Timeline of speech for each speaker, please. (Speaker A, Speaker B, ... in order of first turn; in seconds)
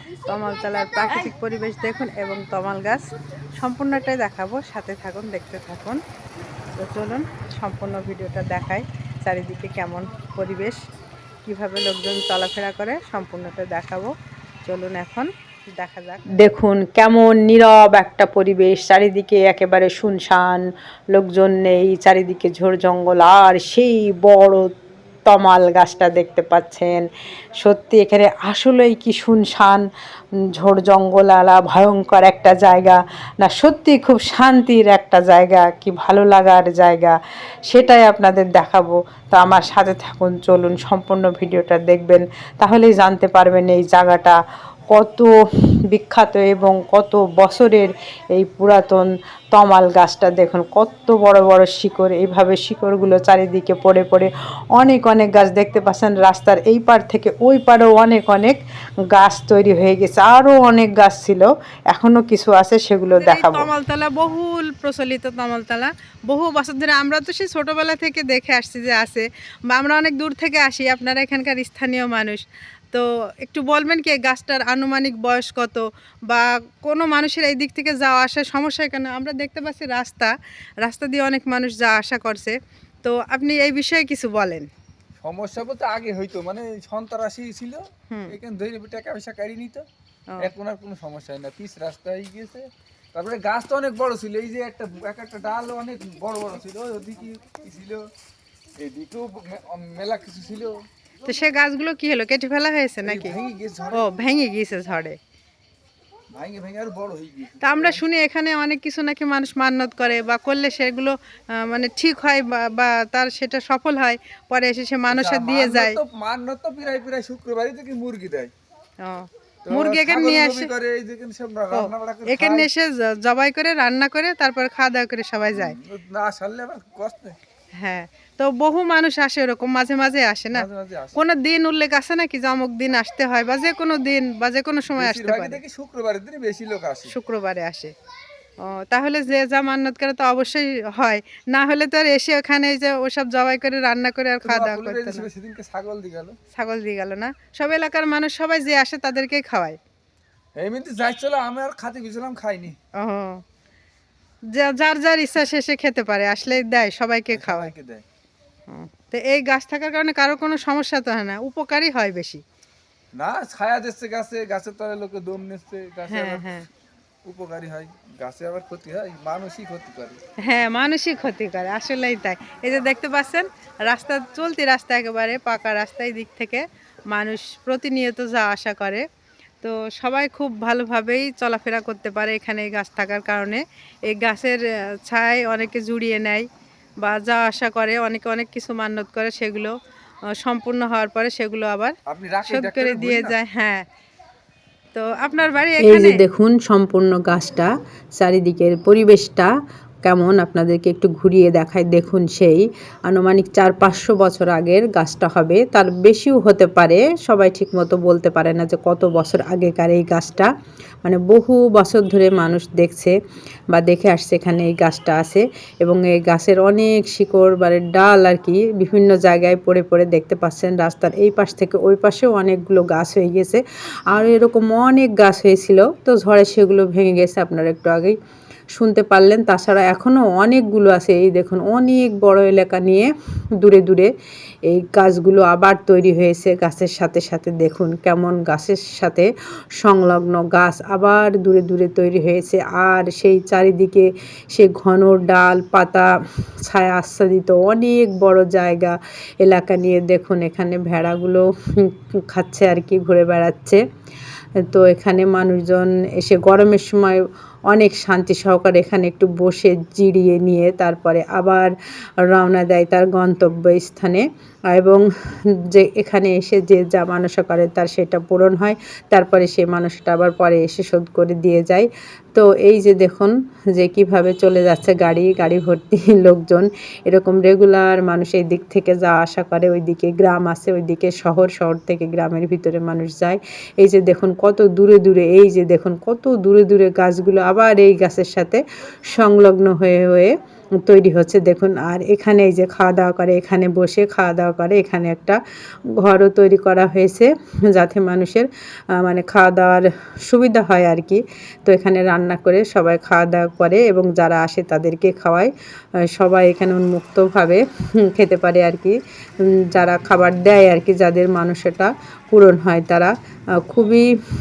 Speaker A: 0.2-3.0, 3.6-6.0, 6.8-10.8, 11.4-14.1, 14.6-16.2, 63.2-84.7, 88.1-88.3, 101.2-103.4, 103.9-105.2, 107.6-116.0, 119.0-120.7, 121.7-125.8, 127.8-135.6, 137.1-137.9, 138.6-145.3, 146.5-149.8, 153.0-153.4, 154.5-157.7, 158.7-162.4, 166.1-166.7, 170.4-179.1, 179.6-186.5, 187.0-189.7, 190.3-191.9, 192.5-193.8, 194.9-196.2
Speaker B: 1.1-1.3, 16.3-24.7, 25.3-27.1, 27.6-29.8, 30.6-37.1, 37.7-44.4, 44.9-45.3, 45.9-58.6, 59.1-63.7, 195.8-199.5, 200.0-210.5, 211.0-213.1, 213.7-228.1, 228.7-233.1, 233.6-234.1, 234.7-239.3, 239.8-246.1, 246.6-253.8, 254.7-257.2, 257.7-265.0, 265.7-295.4, 296.0-305.5, 306.1-308.9, 309.7-313.1, 313.7-314.1
Speaker C: 85.2-89.8, 90.4-98.0, 98.8-100.8, 103.0-104.2, 106.3-108.0, 115.1-118.5, 119.7-122.7, 125.5-127.4, 130.5-131.3, 134.9-137.2, 144.4-146.3, 150.6-152.8, 157.3-158.0, 163.2-166.6, 167.2-170.2, 192.1-193.4